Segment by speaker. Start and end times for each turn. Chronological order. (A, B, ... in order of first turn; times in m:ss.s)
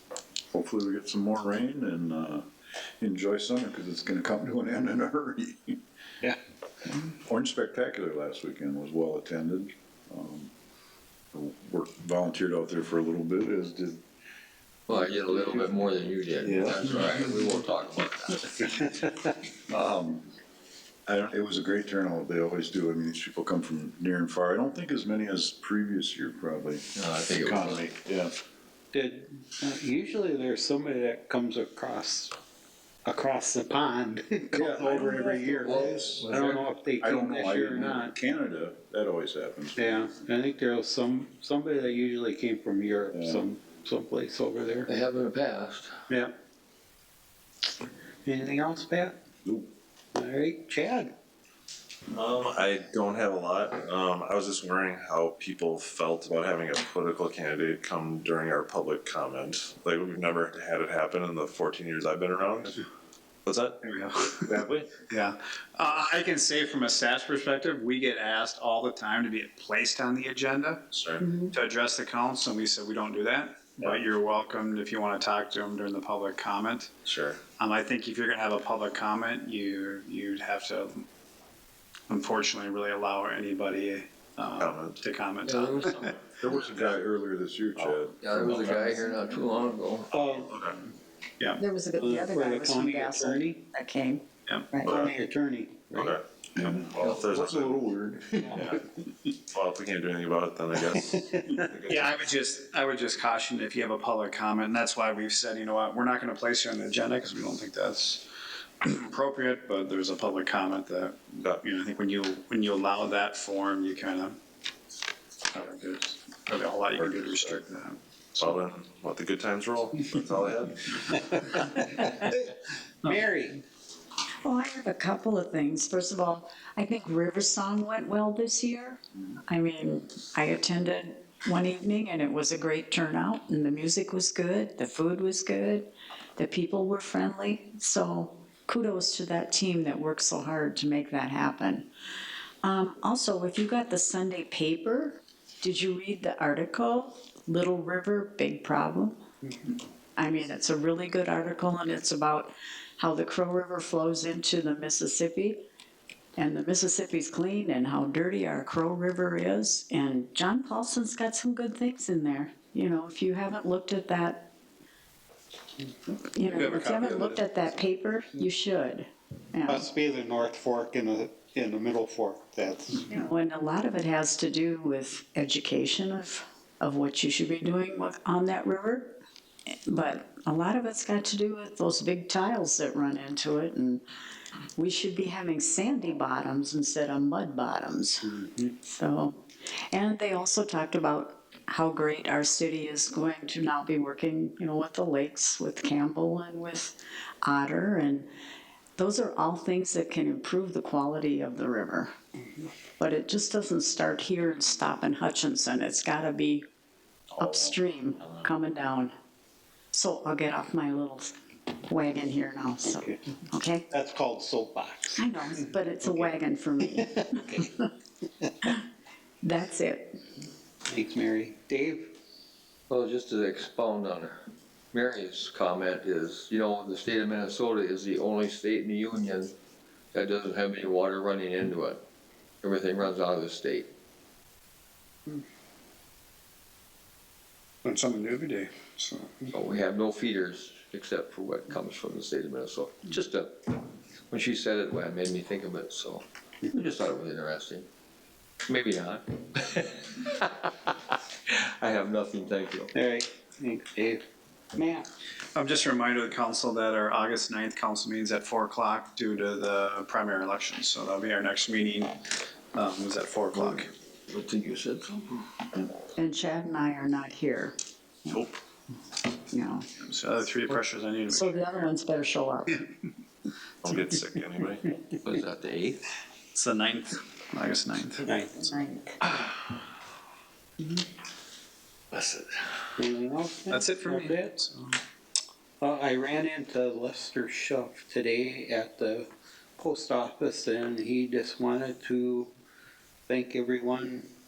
0:00.5-0:02.4 A
0:03.0-0:05.8 A
0:06.9-0:10.5 A
0:11.3-0:14.0 A
0:14.9-0:18.8 B
0:14.9-0:17.2 A
0:19.7-0:20.3 A
0:21.1-0:28.3 A
0:27.0-0:27.9 B
0:28.9-0:32.3 C
0:33.0-0:38.1 C
0:34.5-0:36.4 A
0:35.6-0:36.6 B
0:37.0-0:40.0 A
0:39.8-0:44.9 C
0:43.1-0:43.5 A
0:44.9-0:46.0 B
0:46.1-0:46.3 C
0:48.2-0:49.2 C
0:49.4-0:49.7 A
0:50.1-0:51.1 C
0:52.1-1:02.8 D
1:03.4-1:04.9 D
1:03.8-1:04.6 E
1:05.1-1:10.9 E
1:10.9-1:11.2 D
1:11.2-1:11.6 F
1:11.5-1:16.9 E
1:17.0-1:17.4 D
1:17.6-1:21.0 E
1:22.1-1:26.1 E
1:24.6-1:25.0 D
1:25.4-1:26.1 B
1:26.4-1:29.1 A
1:28.2-1:30.3 B
1:30.1-1:30.6 C
1:30.4-1:30.8 D
1:31.6-1:34.9 F
1:32.0-1:33.6 C
1:34.8-1:35.1 D
1:34.8-1:36.2 C
1:35.9-1:36.2 D
1:36.6-1:38.7 A
1:36.9-1:37.8 D
1:38.5-1:38.8 E
1:39.5-1:42.2 D
1:40.9-1:41.4 C
1:41.5-1:48.2 E
1:48.8-1:54.4 E
1:55.5-1:58.5 E
1:56.9-1:57.6 A
1:58.4-2:01.7 D
2:01.1-2:02.5 C
2:03.0-2:03.6 C
2:04.4-2:21.9 F
2:22.6-2:29.2 F
2:30.2-2:35.6 F
2:36.4-2:44.5 F
2:46.3-2:49.9 F
2:46.4-2:47.4 E
2:49.6-2:53.1 C
2:53.1-2:59.2 F
2:59.8-3:04.0 F
3:04.8-3:18.3 F
3:19.0-3:22.1 F
3:23.0-3:26.6 F
3:27.4-3:27.7 A
3:27.4-3:29.1 F
3:29.9-3:33.9 F
3:32.9-3:33.2 C
3:33.9-3:36.3 C
3:35.2-3:37.7 F
3:37.3-3:37.7 C
3:39.4-3:40.2 F
3:40.9-3:42.1 C
3:42.9-3:44.4 B
3:44.9-3:49.5 B
3:50.1-3:52.0 B
3:52.6-3:53.9 B
3:57.8-3:59.5 E
3:59.5-4:07.9 B
4:08.7-4:11.0 B
4:11.5-4:12.9 B
4:12.9-4:14.2 C
4:14.7-4:15.1 C
4:15.5-4:22.1 E
4:22.7-4:23.9 E
4:24.3-4:25.6 B
4:26.2-4:27.8 F
4:29.5-4:29.9 F
4:30.0-4:31.6 E
4:31.3-4:32.8 F
4:33.8-4:34.8 D
4:35.2-4:36.1 B
4:36.5-4:38.2 E
4:38.2-4:38.8 C
4:38.2-4:39.2 F
4:42.1-4:42.8 B
4:43.0-4:44.7 C
4:43.7-4:44.9 E
4:45.8-4:52.5 C
4:53.3-4:54.3 C